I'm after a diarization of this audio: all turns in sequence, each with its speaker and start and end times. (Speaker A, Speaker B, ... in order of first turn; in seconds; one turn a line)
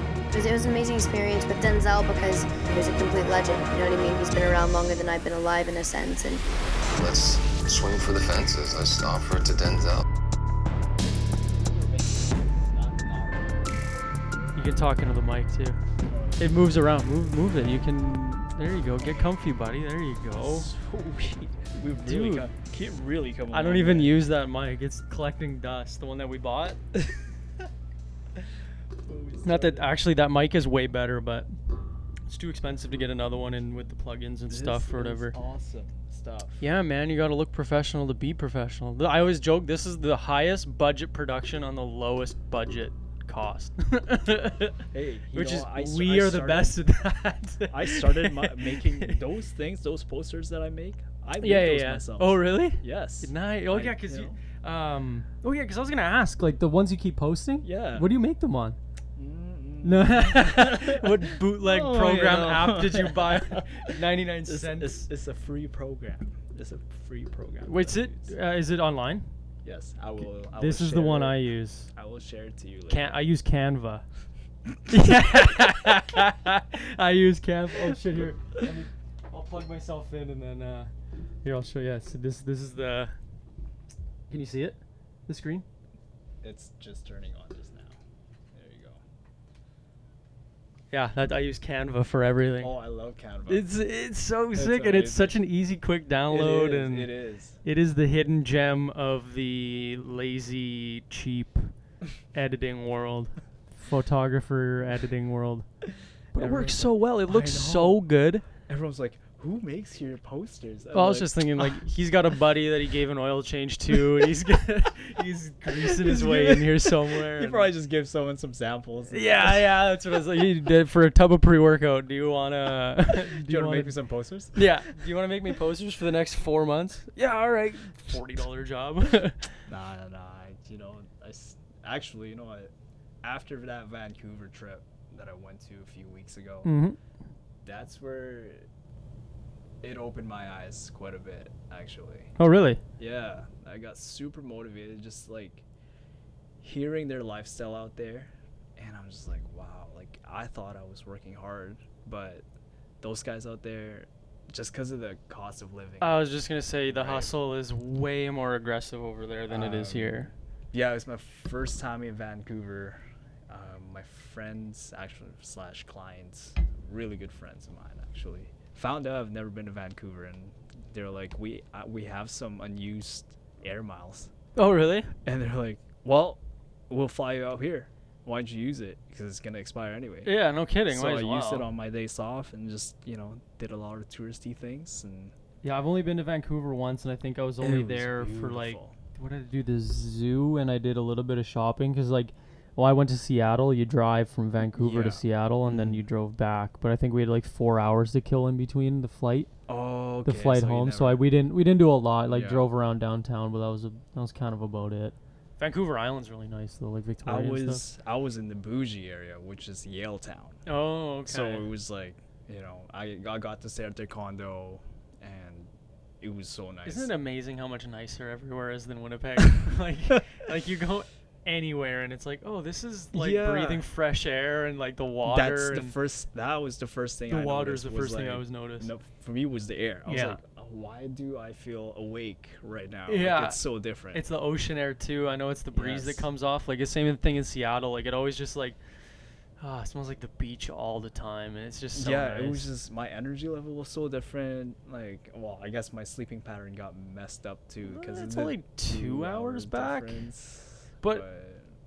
Speaker A: 0.3-6.4
Speaker B: 7.0-10.0
Speaker C: 11.4-14.7
Speaker D: 14.6-15.8
Speaker C: 16.0-16.6
Speaker D: 16.4-20.7
Speaker C: 18.9-19.4
Speaker C: 20.3-24.2
Speaker D: 22.0-22.5
Speaker D: 23.5-26.8
Speaker C: 29.0-29.9
Speaker D: 29.4-31.5
Speaker D: 32.3-35.4
Speaker C: 34.5-36.6
Speaker D: 36.6-49.2
Speaker C: 44.9-46.8
Speaker C: 47.7-54.4
Speaker D: 51.4-58.8
Speaker C: 57.6-58.1
Speaker C: 59.2-68.3
Speaker D: 59.8-65.1
Speaker D: 67.6-69.3
Speaker C: 69.6-71.4
Speaker D: 70.5-71.9
Speaker C: 71.9-73.2
Speaker D: 72.9-74.0
Speaker D: 74.9-80.9
Speaker D: 81.4-83.1
Speaker D: 84.3-85.6
Speaker C: 86.4-88.0
Speaker C: 88.5-89.0
Speaker D: 90.9-92.7
Speaker C: 92.6-93.7
Speaker D: 93.5-97.1
Speaker C: 94.5-95.4
Speaker C: 96.3-97.6
Speaker D: 97.6-101.7
Speaker D: 102.3-105.7
Speaker D: 106.3-108.4
Speaker C: 106.4-108.0
Speaker C: 108.7-111.8
Speaker D: 110.9-117.7
Speaker C: 115.7-119.7
Speaker D: 119.1-124.0
Speaker C: 123.3-124.7
Speaker D: 124.5-129.5
Speaker C: 129.7-132.7
Speaker C: 133.2-136.7
Speaker D: 136.6-137.0
Speaker C: 137.6-138.7
Speaker C: 139.8-142.3
Speaker D: 142.4-142.8
Speaker C: 143.0-145.7
Speaker C: 146.6-152.4
Speaker C: 153.0-156.2
Speaker D: 156.0-160.3
Speaker C: 156.9-157.3
Speaker C: 159.5-174.3
Speaker D: 174.6-175.1
Speaker C: 175.2-180.3
Speaker D: 180.2-181.7
Speaker C: 180.9-185.3
Speaker D: 185.6-199.5
Speaker C: 187.6-188.9
Speaker C: 194.7-196.0
Speaker C: 199.7-201.2
Speaker D: 200.2-207.8
Speaker C: 202.3-202.7
Speaker C: 207.2-210.6
Speaker D: 210.7-211.7
Speaker C: 211.2-217.1
Speaker D: 216.8-225.9
Speaker C: 223.1-223.8
Speaker C: 225.2-234.2
Speaker D: 227.3-228.9
Speaker D: 230.1-230.4
Speaker D: 233.1-233.6
Speaker D: 234.1-238.8
Speaker C: 235.8-236.3
Speaker D: 239.6-242.7
Speaker C: 241.9-251.7
Speaker D: 247.8-250.2